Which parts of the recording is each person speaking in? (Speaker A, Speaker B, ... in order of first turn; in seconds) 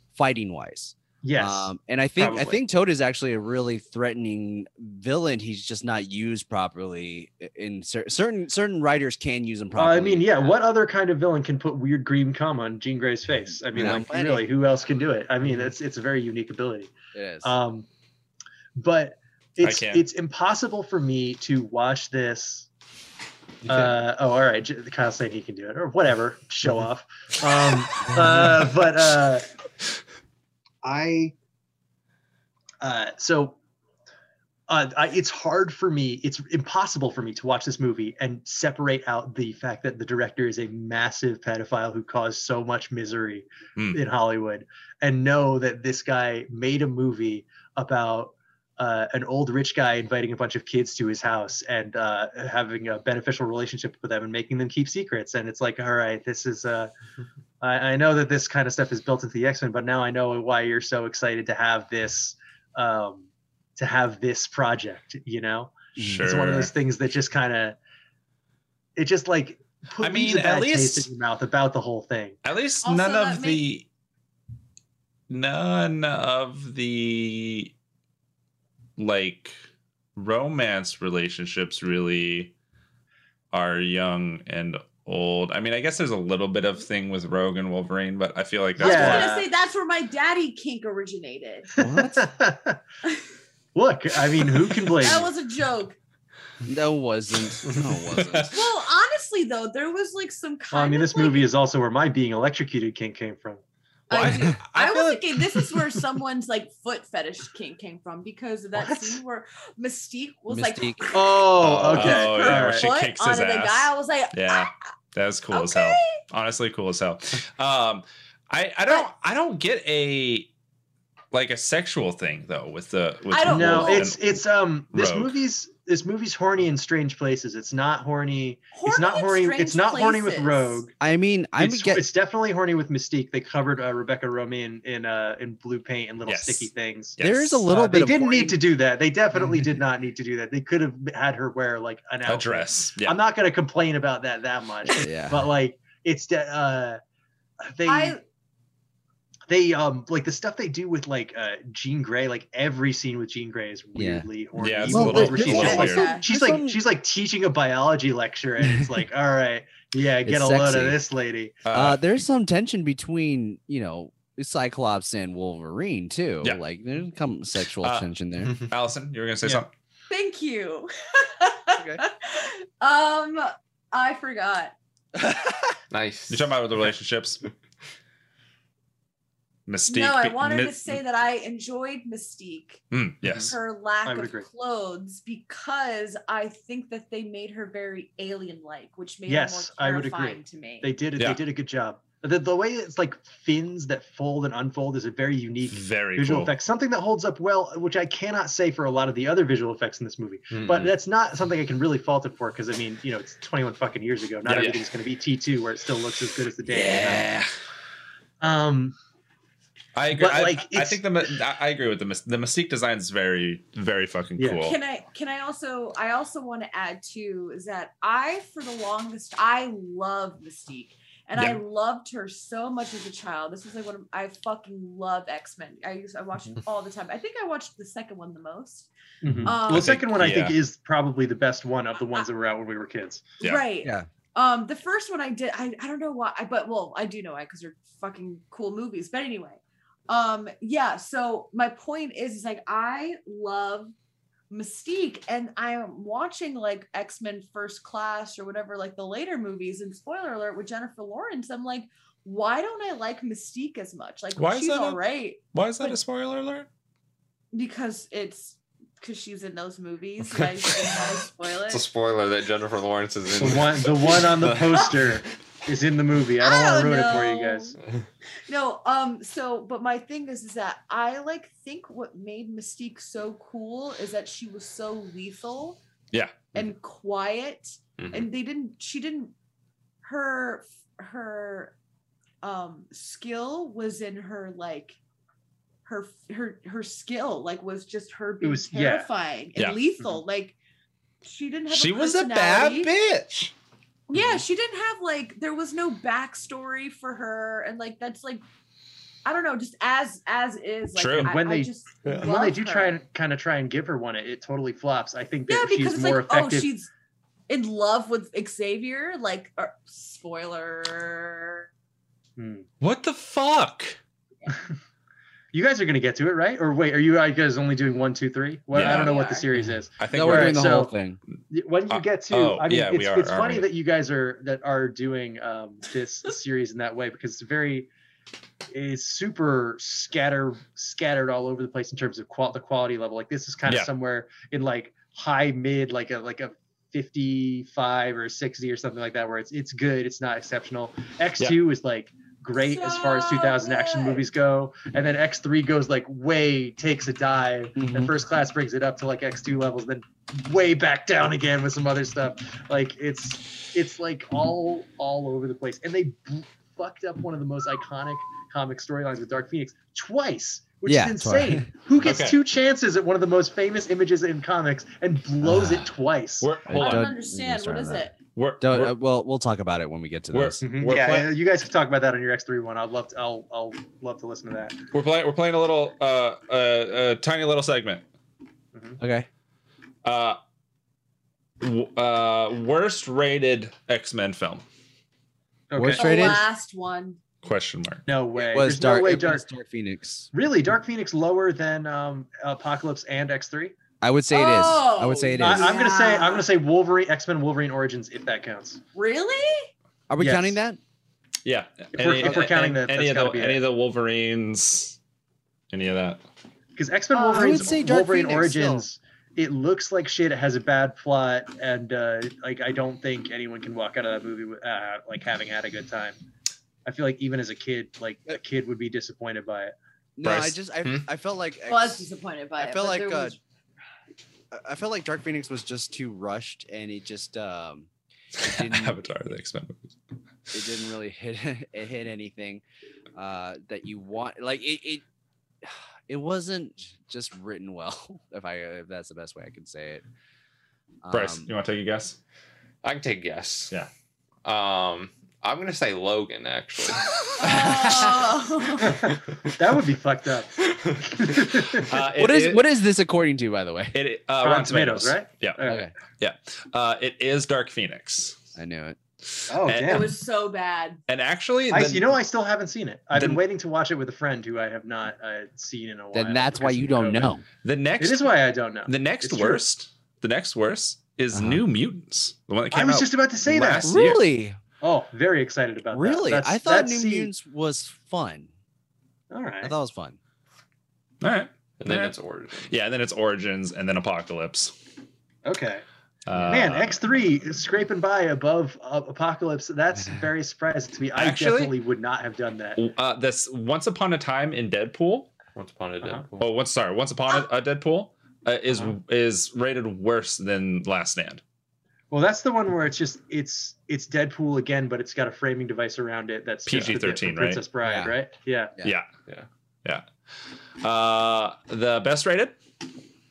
Speaker A: 0.1-10.5, 13.7-14.5, 17.1-17.6, 23.7-23.9, 28.1-28.5, 91.8-92.3, 96.7-98.5, 110.5-111.2, 131.0-132.0, 137.2-138.6, 144.9-145.5, 154.0-154.3, 154.9-156.8, 160.2-161.0, 161.7-168.5, 171.8-172.0, 175.2-175.8, 233.8-234.1, 319.6-321.2, 347.8-348.1, 360.9-361.7, 365.4-365.9, 366.7-368.1, 368.6-370.6, 379.0-379.3, 385.8-386.4, 388.4-390.3, 394.0-395.8, 400.1-400.8, 407.3-408.9, 420.2-423.4, 424.5-427.9, 428.4-429.0, 430.5-432.6, 433.1-435.0, 435.6-440.0, 441.0-441.5, 447.4-448.1, 452.2-454.0, 455.6-455.9, 458.6-459.0, 466.1-467.4, 471.3-471.6, 473.9-474.6, 475.9-478.5, 479.6-480.2, 507.8-508.1
Speaker B: 1.2-2.6, 9.8-17.9, 18.8-22.7, 23.7-29.5, 30.8-31.3, 32.8-33.6, 34.7-56.9, 57.6-67.8, 69.0-72.4, 88.8-89.4, 91.8-92.8, 93.8-95.3, 100.7-103.6, 108.7-109.2, 111.1-112.9, 123.5-130.9, 131.6-137.2, 137.7-147.0, 147.6-148.2, 149.5-161.6, 184.1-184.5, 189.3-207.3, 208.4-208.9, 210.1-211.3, 214.4-214.7, 229.2-233.2, 263.4-267.8, 288.4-289.1, 301.2-306.7, 312.4-312.7, 315.5-320.9, 321.5-327.9, 328.7-366.5, 370.6-374.8, 385.7-386.4, 388.1-389.5, 390.3-393.8, 395.4-398.8, 400.2-400.6, 401.9-403.6, 406.8-416.2, 416.9-419.7, 449.0-451.9, 454.4-455.9, 459.5-460.2, 461.7-467.4, 468.0-469.6, 472.7-474.0, 474.8-477.3, 479.3-479.7, 485.4-485.8, 486.4-492.8, 502.1-508.7
Speaker C: 19.6-20.0, 66.0-66.7, 70.0-71.1, 72.4-73.9, 75.3-77.7, 79.0-79.6, 80.2-82.5, 83.5-89.5, 98.1-98.5, 104.1-106.0, 111.6-120.5, 121.3-124.4, 124.9-125.3, 136.3-137.7, 142.3-143.2, 154.6-156.1, 161.7-162.0, 167.8-168.1, 168.7-169.7, 176.3-177.4, 179.7-181.0, 182.9-183.6, 195.7-196.5, 204.5-204.8, 206.7-207.5, 210.0-214.8, 229.7-230.6, 254.4-255.0, 255.5-256.7, 276.1-276.5, 291.7-293.5, 300.9-301.3, 312.8-314.0, 318.7-319.1, 320.0-320.6, 321.9-323.7, 362.0-362.4, 366.4-367.1, 368.4-368.9, 370.3-371.3, 374.9-378.0, 380.0-380.4, 381.6-384.6, 387.4-388.1, 401.4-405.0, 405.7-406.2, 420.2-420.6, 428.4-429.9, 441.1-442.2, 451.7-452.6, 453.9-455.6, 456.2-458.4, 459.6-460.1, 461.1-462.2, 463.1-463.4, 467.6-468.3, 468.9-474.2, 481.2-484.8, 486.3-487.0, 491.2-491.7, 492.8-495.3, 496.4-501.4, 506.7-507.6, 508.8-509.1, 510.8-512.6
Speaker D: 72.8-73.6, 88.8-91.7, 94.3-96.0, 98.5-101.5, 104.1-114.7, 115.5-116.2, 123.3-124.1, 128.7-130.8, 147.8-148.2, 155.3-156.3, 170.1-174.7, 179.9-182.8, 183.5-190.9, 214.6-228.9, 229.4-229.9, 233.4-243.9, 244.5-256.0, 257.5-261.9, 266.4-267.8, 268.5-275.8, 276.5-279.3, 280.0-281.8, 282.4-285.0, 285.9-290.6, 291.2-292.9, 294.1-298.4, 299.2-303.0, 305.5-306.9, 307.5-311.7, 318.8-319.5, 342.6-344.3, 366.7-368.2, 385.9-387.2, 394.3-396.5, 398.9-399.7, 407.1-407.7, 421.7-423.4, 447.4-449.0, 459.8-461.0
Speaker E: 175.9-176.6, 200.5-200.9, 261.7-264.9, 278.0-278.3, 442.8-443.7, 444.4-447.1, 449.1-449.5, 481.8-482.7, 495.6-496.5